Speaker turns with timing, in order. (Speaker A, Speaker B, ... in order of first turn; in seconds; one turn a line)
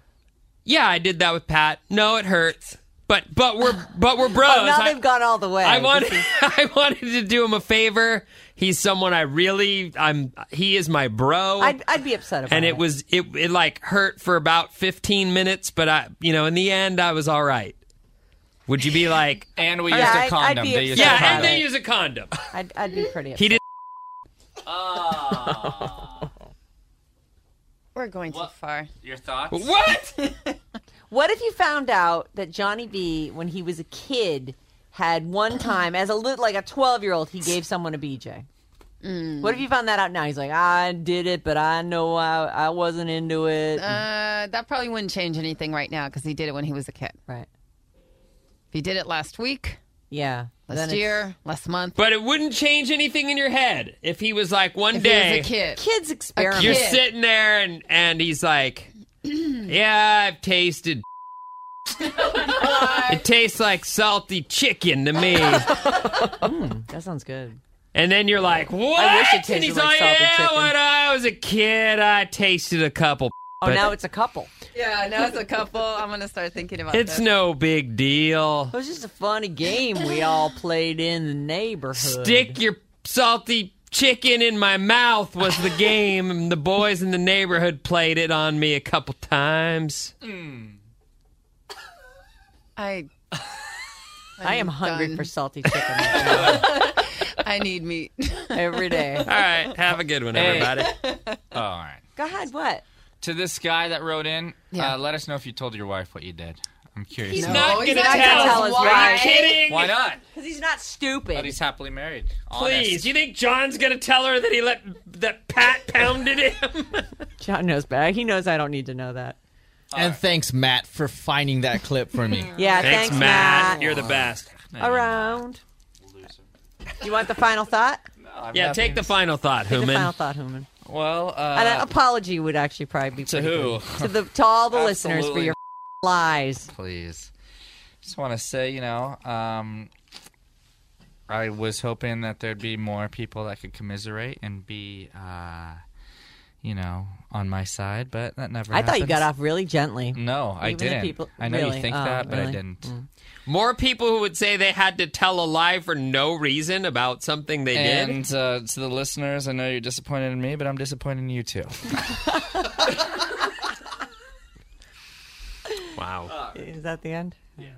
Speaker A: 0.7-5.0
Speaker B: 4.4-6.3
Speaker A: 5.6-11.8
Speaker B: 11.6-12.8
Speaker A: 12.5-17.8
Speaker A: 18.7-20.2
Speaker C: 19.6-21.6
Speaker B: 19.9-21.6
Speaker A: 20.9-22.3
Speaker B: 22.5-23.6
Speaker C: 24.6-26.3
Speaker D: 27.9-28.9
Speaker C: 28.3-29.7
Speaker A: 29.5-30.1
Speaker D: 30.2-30.6
Speaker B: 31.1-38.5
Speaker D: 39.0-39.6
Speaker B: 39.4-44.0
Speaker D: 43.8-47.1
Speaker D: 48.7-49.8
Speaker B: 50.1-51.2
Speaker D: 50.7-52.0
Speaker A: 52.0-55.5
Speaker D: 54.9-55.8
Speaker B: 55.8-56.9
Speaker D: 56.4-57.0
Speaker A: 56.5-61.0
Speaker D: 62.4-63.2
Speaker A: 62.7-65.8
Speaker B: 66.2-67.6
Speaker A: 67.9-73.9
Speaker B: 68.9-70.7
Speaker B: 73.6-74.5
Speaker D: 74.7-77.2
Speaker A: 76.9-78.7
Speaker B: 78.7-82.6
Speaker A: 82.0-90.1
Speaker C: 90.2-90.8
Speaker D: 92.8-93.1
Speaker D: 94.4-99.3
Speaker B: 94.4-96.7
Speaker C: 96.2-96.7
Speaker B: 98.5-99.3
Speaker A: 99.2-100.9
Speaker C: 100.3-100.9
Speaker D: 100.6-101.4
Speaker C: 101.5-102.0
Speaker B: 102.2-102.8
Speaker C: 103.2-108.0
Speaker D: 107.3-109.5
Speaker A: 107.3-109.9
Speaker B: 107.9-109.6
Speaker C: 109.6-110.2
Speaker B: 110.3-111.5
Speaker C: 111.3-113.1
Speaker A: 112.5-117.1
Speaker B: 117.4-119.4
Speaker C: 119.9-120.2
Speaker E: 119.9-122.5
Speaker B: 122.5-124.1
Speaker A: 122.8-124.5
Speaker C: 123.9-125.4
Speaker B: 124.8-125.6
Speaker C: 126.0-126.5
Speaker B: 127.0-128.0
Speaker C: 128.2-129.1
Speaker A: 128.5-130.1
Speaker B: 129.7-130.7
Speaker C: 130.8-131.9
Speaker B: 131.5-136.7
Speaker C: 133.2-134.1
Speaker C: 134.7-135.6
Speaker C: 136.7-137.3
Speaker C: 138.0-139.9
Speaker C: 141.3-145.8
Speaker C: 146.6-149.3
Speaker B: 148.7-153.1
Speaker C: 150.1-152.9
Speaker A: 153.4-158.2
Speaker C: 157.7-162.8
Speaker A: 165.9-166.3
Speaker B: 166.5-167.5